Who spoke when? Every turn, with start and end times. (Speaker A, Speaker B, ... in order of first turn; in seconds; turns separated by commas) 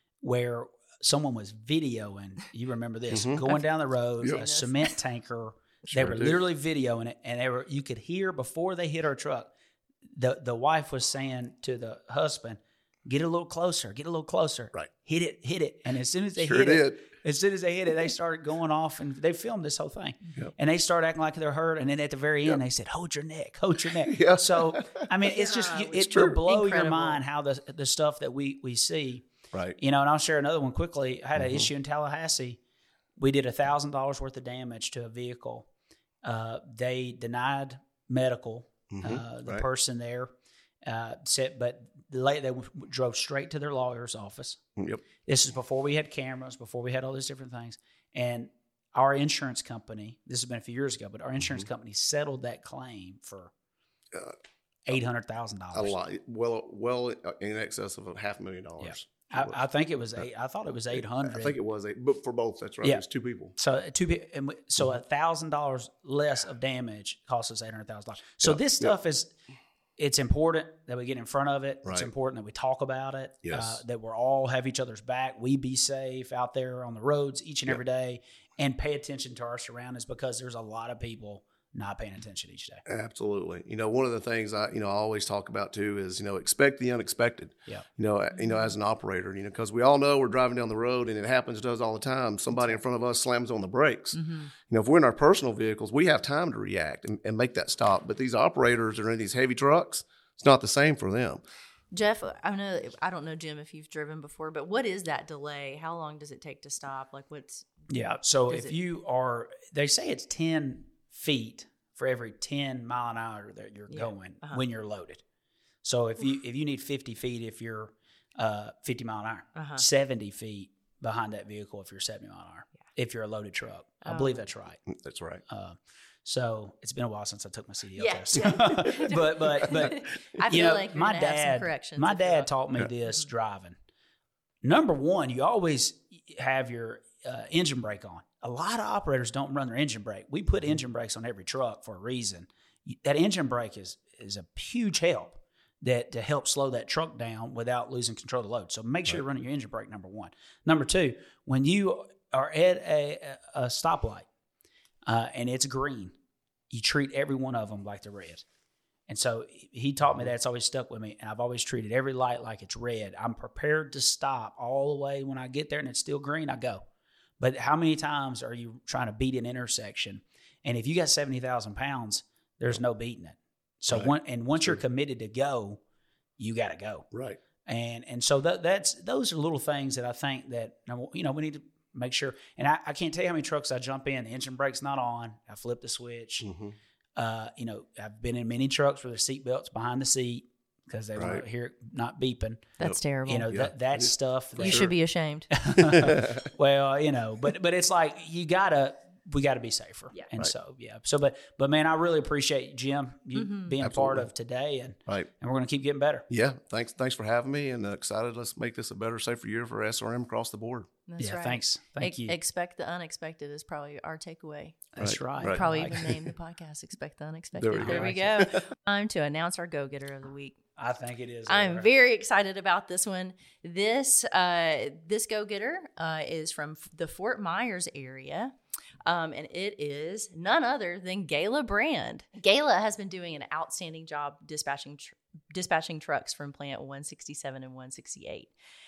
Speaker A: 0.2-9.5, Speaker B: 3.1-3.4, Speaker C: 4.2-4.9, Speaker B: 5.9-6.4, Speaker A: 10.2-29.3, Speaker B: 16.4-17.0, Speaker B: 24.0-25.1, Speaker C: 25.3-27.2, Speaker B: 25.9-26.4, Speaker B: 29.5-29.8, Speaker A: 29.8-32.6, Speaker B: 31.4-31.7, Speaker A: 33.2-35.7, Speaker A: 36.2-40.3, Speaker B: 38.9-39.6, Speaker A: 40.8-44.6, Speaker B: 44.8-45.0, Speaker A: 45.2-53.5, Speaker B: 51.4-51.7, Speaker A: 54.9-55.9, Speaker B: 55.7-59.6, Speaker A: 58.8-61.6, Speaker B: 60.9-63.5, Speaker A: 63.5-69.3, Speaker B: 68.4-68.9, Speaker A: 70.0-82.8, Speaker B: 71.8-72.1, Speaker B: 73.4-73.8, Speaker B: 82.9-101.4, Speaker C: 94.1-94.5, Speaker C: 101.9-107.7, Speaker A: 107.9-115.2, Speaker C: 108.5-108.8, Speaker C: 113.9-114.6, Speaker A: 115.8-124.8, Speaker C: 119.5-119.8, Speaker C: 124.0-124.4, Speaker B: 124.9-125.4, Speaker A: 125.5-133.8, Speaker C: 128.0-132.5, Speaker A: 134.6-154.3, Speaker A: 155.0-156.1, Speaker A: 156.7-158.4, Speaker A: 159.1-166.8, Speaker A: 167.4-175.8, Speaker B: 173.9-174.8, Speaker A: 176.4-177.1, Speaker B: 177.1-177.4, Speaker A: 177.7-186.5, Speaker B: 186.4-186.8, Speaker A: 187.2-192.7, Speaker B: 191.2-191.4, Speaker C: 192.8-193.5, Speaker B: 192.8-194.9, Speaker A: 193.2-194.9, Speaker C: 194.6-195.5, Speaker A: 195.5-206.2, Speaker B: 195.8-196.5, Speaker C: 203.3-203.7, Speaker B: 203.8-204.3, Speaker B: 206.3-210.9, Speaker C: 211.1-220.6, Speaker A: 211.2-212.4, Speaker A: 214.9-216.2, Speaker B: 215.0-216.1, Speaker B: 217.6-218.6, Speaker A: 217.7-218.3, Speaker A: 220.8-221.9, Speaker C: 221.4-228.5, Speaker C: 229.0-238.5